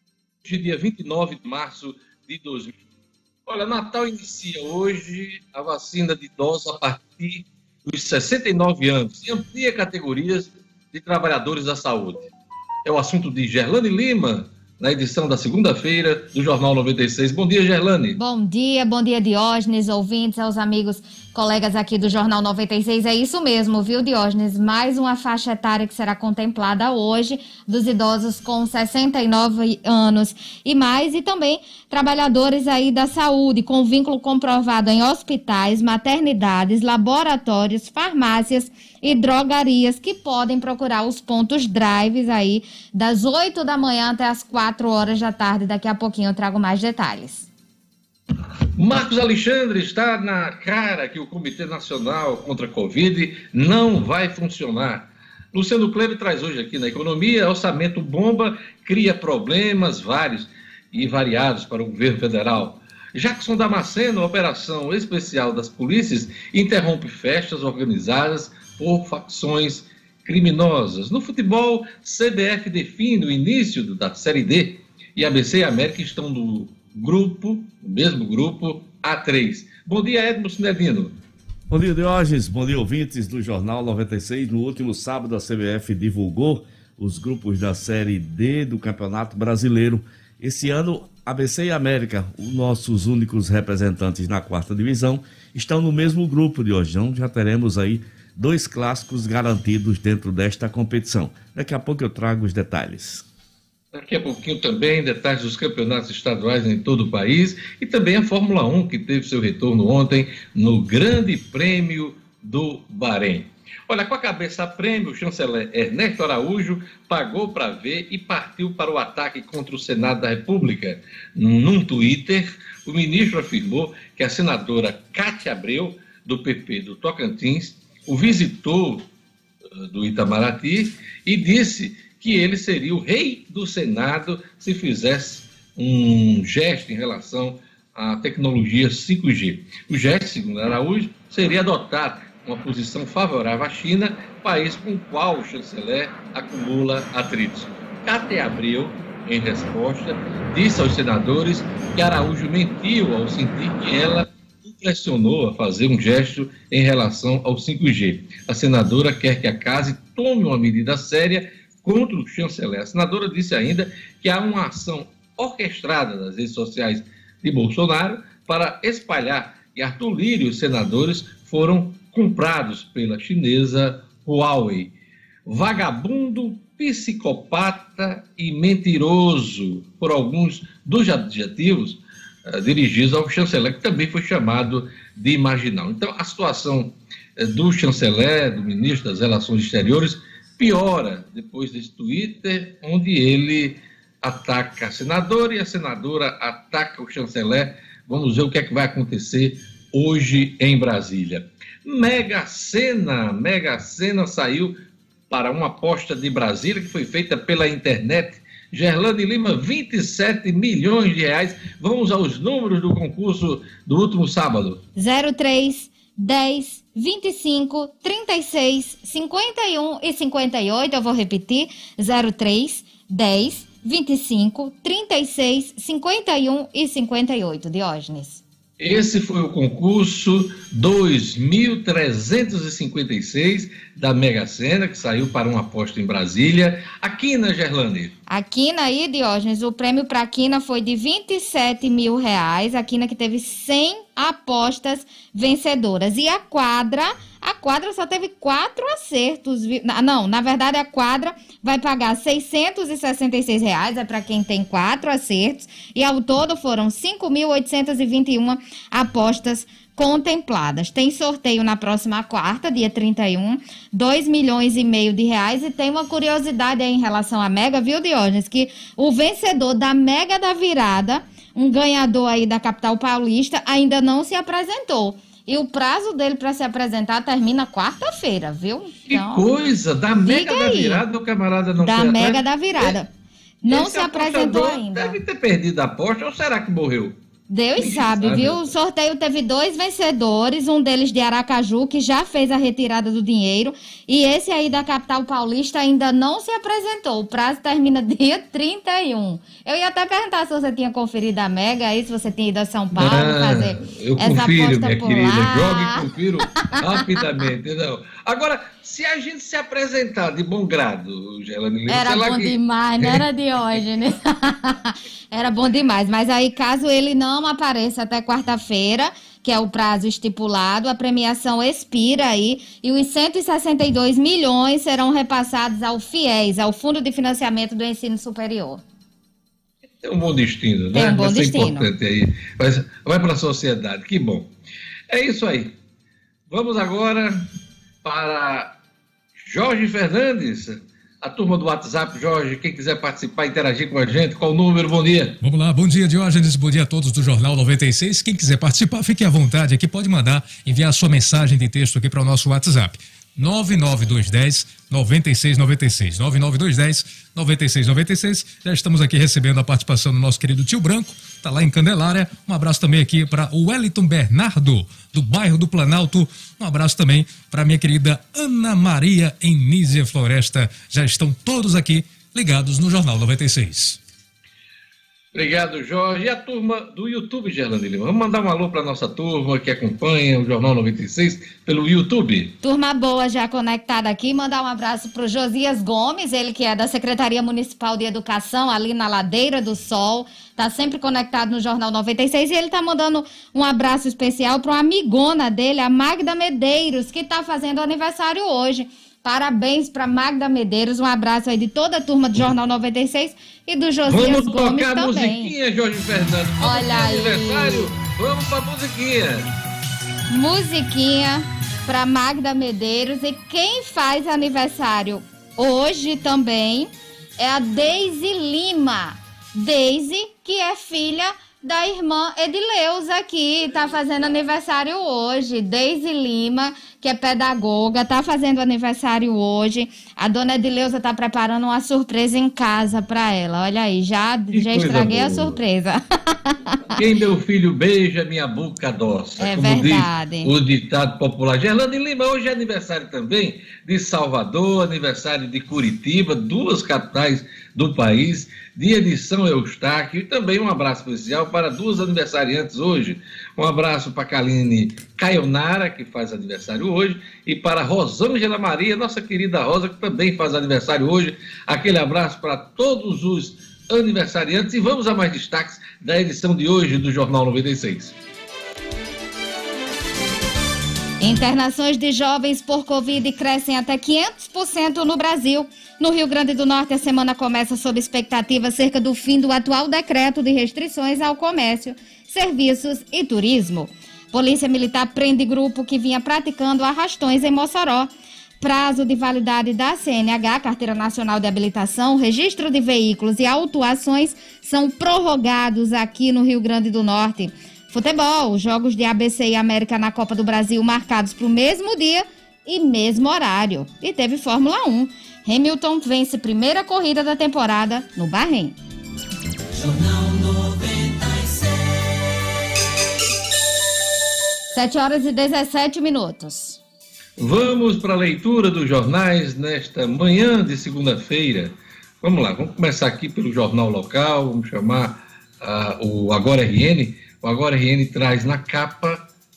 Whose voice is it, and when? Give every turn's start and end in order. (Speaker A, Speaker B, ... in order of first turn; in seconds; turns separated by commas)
Speaker A: 0.4-2.8, Speaker A: 3.5-12.3, Speaker A: 12.8-18.2, Speaker B: 18.1-47.5, Speaker A: 48.8-81.2, Speaker C: 81.7-103.2, Speaker A: 103.9-129.1, Speaker A: 129.8-174.9, Speaker A: 175.4-204.8, Speaker A: 205.3-214.8, Speaker B: 214.9-228.4, Speaker A: 228.8-238.1, Speaker B: 238.3-279.5, Speaker A: 279.1-283.0, Speaker B: 280.2-281.0, Speaker B: 281.8-283.1, Speaker B: 283.6-285.2, Speaker A: 283.7-287.2, Speaker B: 287.5-306.0, Speaker A: 287.8-288.7, Speaker A: 302.9-313.2, Speaker B: 311.9-328.8, Speaker A: 330.0-334.5, Speaker B: 330.9-331.9, Speaker A: 335.1-335.8, Speaker A: 336.5-337.5, Speaker A: 338.0-338.8, Speaker A: 339.4-345.4, Speaker D: 345.4-374.0, Speaker A: 375.3-382.6, Speaker B: 382.6-405.6, Speaker A: 404.1-409.5, Speaker B: 406.6-407.9, Speaker B: 410.3-436.9, Speaker A: 434.5-435.6, Speaker A: 436.9-468.1, Speaker B: 439.4-440.5, Speaker B: 471.2-508.8, Speaker B: 514.7-516.8, Speaker A: 517.4-529.2